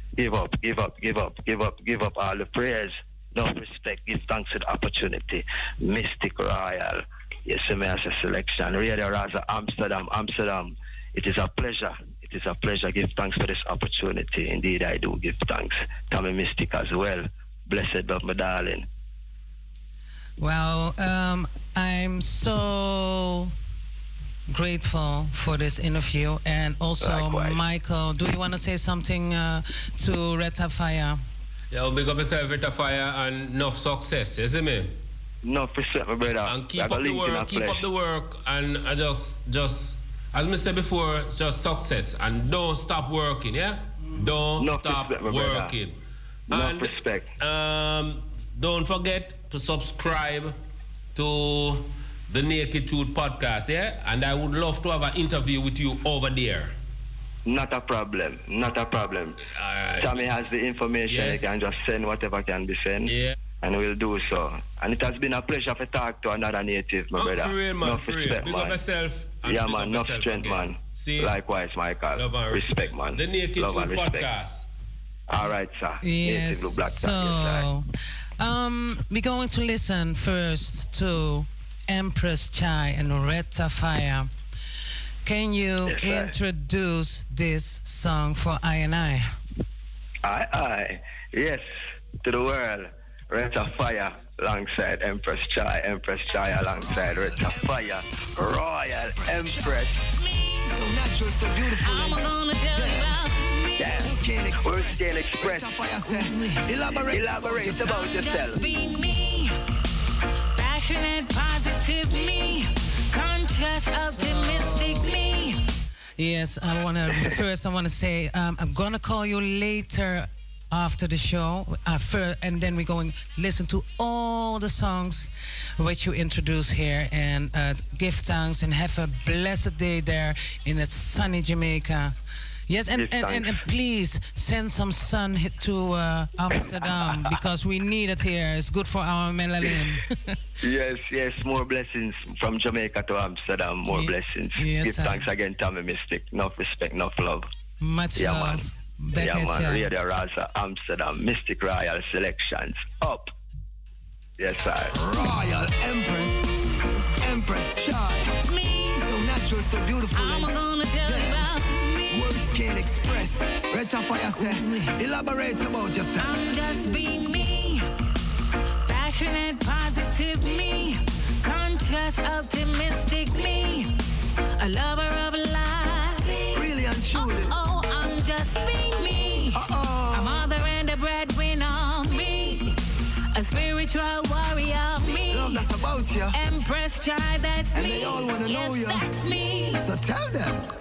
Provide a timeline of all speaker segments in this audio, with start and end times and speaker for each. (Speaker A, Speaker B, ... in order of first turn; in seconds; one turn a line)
Speaker A: 0.1-18.9
Speaker B: 20.4-23.5
Speaker B: 24.5-31.2
Speaker A: 27.0-27.6
Speaker C: 31.7-34.9
Speaker A: 35.4-37.8
Speaker C: 36.5-45.9
Speaker A: 44.6-45.8
Speaker C: 46.5-50.5
Speaker A: 46.5-47.3
Speaker C: 51.1-56.7
Speaker A: 57.5-59.4
Speaker C: 59.5-60.2
Speaker A: 60.0-68.8
Speaker C: 61.1-61.5
Speaker C: 63.1-63.3
Speaker C: 67.1-71.3
Speaker A: 69.4-74.3
Speaker C: 72.1-74.6
Speaker A: 75.3-77.7
Speaker B: 76.0-77.8
Speaker B: 78.4-84.3
Speaker B: 85.2-89.3
Speaker A: 85.8-86.3
Speaker A: 90.2-91.6
Speaker A: 92.2-98.8
Speaker D: 98.4-100.0
Speaker A: 99.3-99.8
Speaker D: 100.6-103.2
Speaker E: 101.6-103.7
Speaker D: 103.8-108.5
Speaker A: 104.7-105.6
Speaker A: 107.1-108.5
Speaker E: 107.8-109.5
Speaker E: 110.5-115.7
Speaker B: 114.0-115.0
Speaker B: 116.2-132.1
Speaker B: 132.7-140.3
Speaker A: 132.9-133.6
Speaker A: 140.6-147.5
Speaker B: 143.9-145.2
Speaker B: 147.8-149.9
Speaker A: 148.2-148.6
Speaker A: 149.1-153.3
Speaker A: 154.4-154.9
Speaker D: 154.9-156.4
Speaker D: 157.2-158.3
Speaker E: 158.4-159.1
Speaker D: 158.9-161.5
Speaker E: 160.1-162.0
Speaker D: 162.1-166.4
Speaker E: 166.2-167.9
Speaker E: 168.9-174.0
Speaker E: 174.6-176.5
Speaker D: 176.5-177.5
Speaker E: 177.1-182.8
Speaker D: 179.5-180.4
Speaker E: 183.3-185.7
Speaker D: 185.3-186.4
Speaker E: 186.3-189.8
Speaker D: 187.7-189.1
Speaker D: 189.8-190.7